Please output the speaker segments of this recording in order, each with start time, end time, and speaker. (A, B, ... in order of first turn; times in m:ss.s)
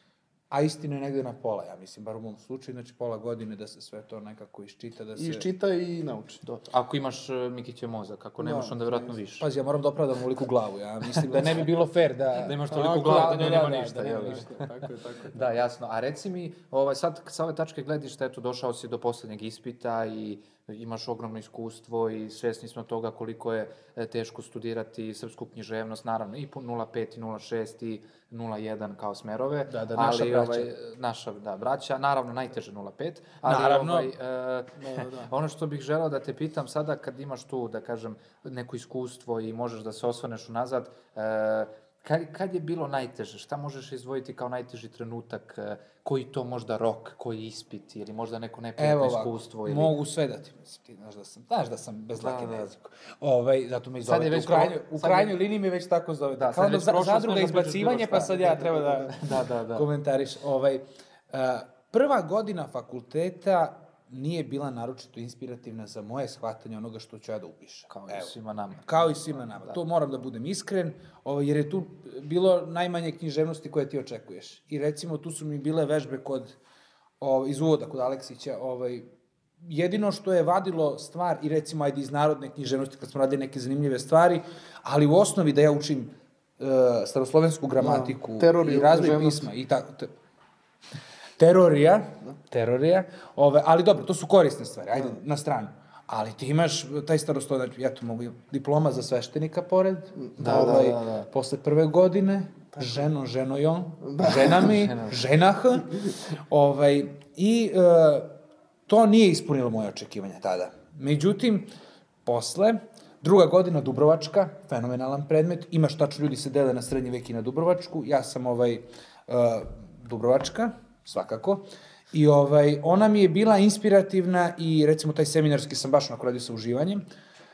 0:00.5-0:05.5 A
0:05.1-0:06.4 B
0:06.4-0:09.4 C
0:08.4-0:09.2 B
0:09.4-0:14.4 A
0:12.3-0:14.6 C
0:12.7-0:15.6 B
0:15.3-0:49.9 C
0:29.6-0:30.7 A
0:33.4-0:34.1 A
0:34.8-0:35.3 B
0:48.8-1:08.3 A
0:52.2-0:52.7 C
0:54.0-0:55.4 C
0:56.4-0:59.9 C
1:07.9-1:09.8 C
1:08.8-1:16.5 A
1:17.2-1:19.1 A
1:19.6-1:30.1 A
1:27.8-1:29.5 B
1:31.4-1:45.9 A
1:40.2-1:40.8 B
1:40.4-1:41.3 C
1:44.0-1:44.8 B
1:44.7-1:45.1 C
1:46.5-1:48.3 A
1:48.9-1:51.7 A
1:52.2-2:07.0 A